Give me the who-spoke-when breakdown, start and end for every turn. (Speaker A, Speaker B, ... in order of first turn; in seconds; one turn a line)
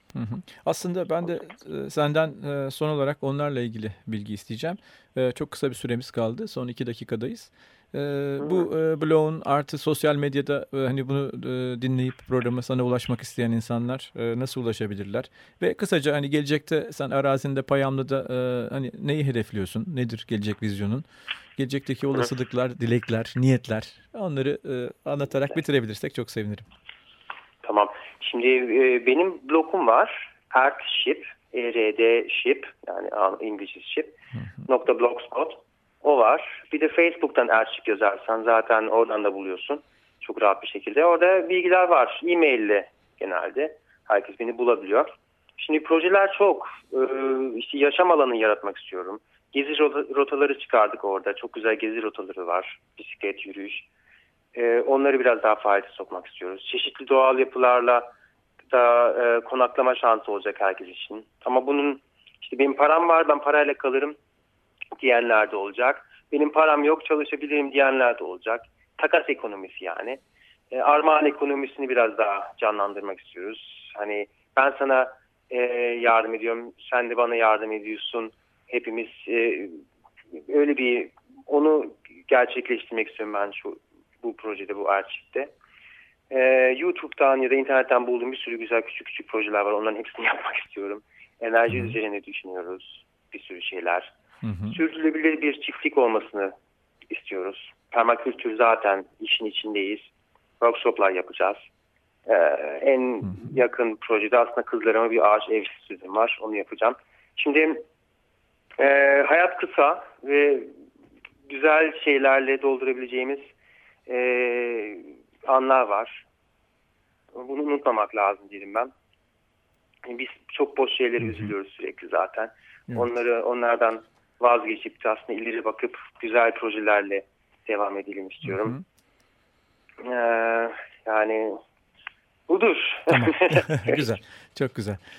Speaker A: 0.1-21.0
Speaker B: 8.4-8.7
Speaker A: 21.6-26.6
Speaker B: 27.6-34.1
Speaker B: 34.6-53.9
Speaker B: 54.5-58.1
Speaker B: 58.7-64.2
Speaker B: 65.0-70.2
Speaker B: 70.7-79.8
Speaker B: 80.4-85.5
Speaker B: 86.3-94.1
Speaker A: 94.4-94.7
Speaker B: 94.6-96.5
Speaker B: 97.1-101.6
Speaker B: 102.3-107.8
Speaker B: 108.8-110.7
Speaker B: 111.5-113.5
Speaker B: 114.1-116.2
Speaker B: 117.3-118.9
Speaker B: 120.0-128.8
Speaker A: 128.5-128.8
Speaker B: 130.0-131.6
Speaker B: 132.5-134.0
Speaker A: 133.1-135.0